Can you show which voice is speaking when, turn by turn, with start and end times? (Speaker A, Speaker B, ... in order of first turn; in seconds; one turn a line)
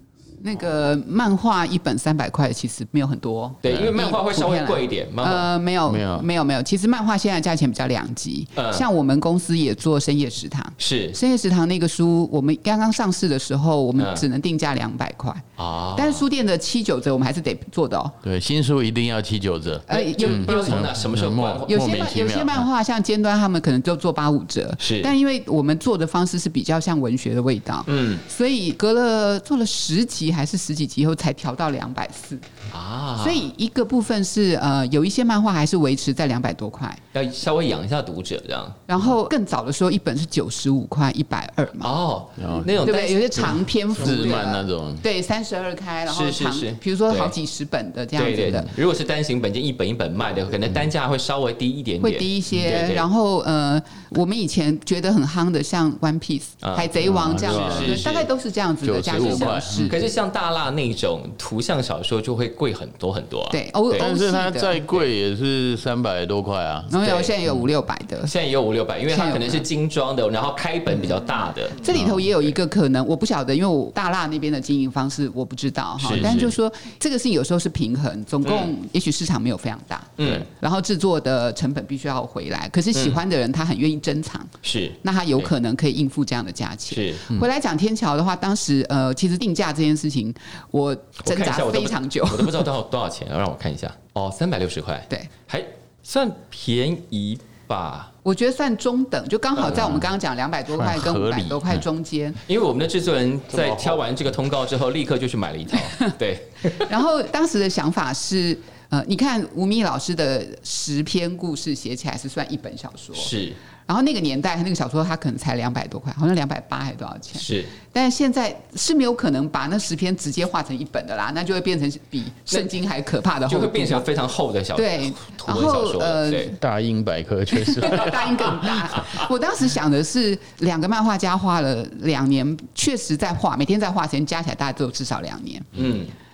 Speaker A: 0.4-18.1
Speaker B: 3.6-5.5
Speaker C: 3.6-3.9
Speaker C: 5.8-6.2
Speaker B: 8.6-8.8
Speaker B: 10.8-11.2
Speaker B: 14.0-14.2
Speaker B: 15.6-16.2
Speaker C: 18.2-22.6
Speaker A: 19.9-20.8
Speaker B: 19.9-22.1
Speaker A: 21.7-32.4
Speaker B: 24.8-25.1
Speaker B: 27.9-28.2
Speaker B: 32.7-33.5
Speaker A: 33.2-37.0
Speaker B: 37.1-38.8
Speaker A: 38.9-41.9
Speaker B: 41.8-43.5
Speaker C: 42.4-42.9
Speaker A: 42.8-48.7
Speaker C: 43.9-45.0
Speaker B: 46.1-47.3
Speaker B: 48.1-53.0
Speaker A: 52.0-60.0
Speaker B: 56.6-58.3
Speaker C: 57.0-58.1
Speaker C: 58.8-60.1
Speaker B: 59.1-64.1
Speaker A: 63.5-65.0
Speaker C: 64.0-66.9
Speaker A: 66.9-68.3
Speaker B: 67.0-67.3
Speaker B: 68.2-72.2
Speaker A: 69.1-69.6
Speaker A: 71.8-92.7
Speaker B: 76.0-76.5
Speaker C: 76.1-76.4
Speaker B: 78.4-78.7
Speaker B: 80.2-80.5
Speaker B: 82.9-83.2
Speaker B: 84.6-85.5
Speaker B: 86.9-87.2
Speaker B: 91.2-98.1
Speaker A: 98.2-102.4
Speaker B: 99.5-100.0
Speaker C: 100.7-101.8
Speaker B: 102.5-106.8
Speaker C: 103.5-104.0
Speaker A: 106.7-113.3
Speaker B: 113.2-113.6
Speaker A: 113.8-124.1
Speaker B: 117.3-117.7
Speaker B: 123.5-126.5
Speaker A: 124.8-126.6
Speaker C: 126.6-128.8
Speaker A: 127.8-135.9
Speaker B: 135.7-136.1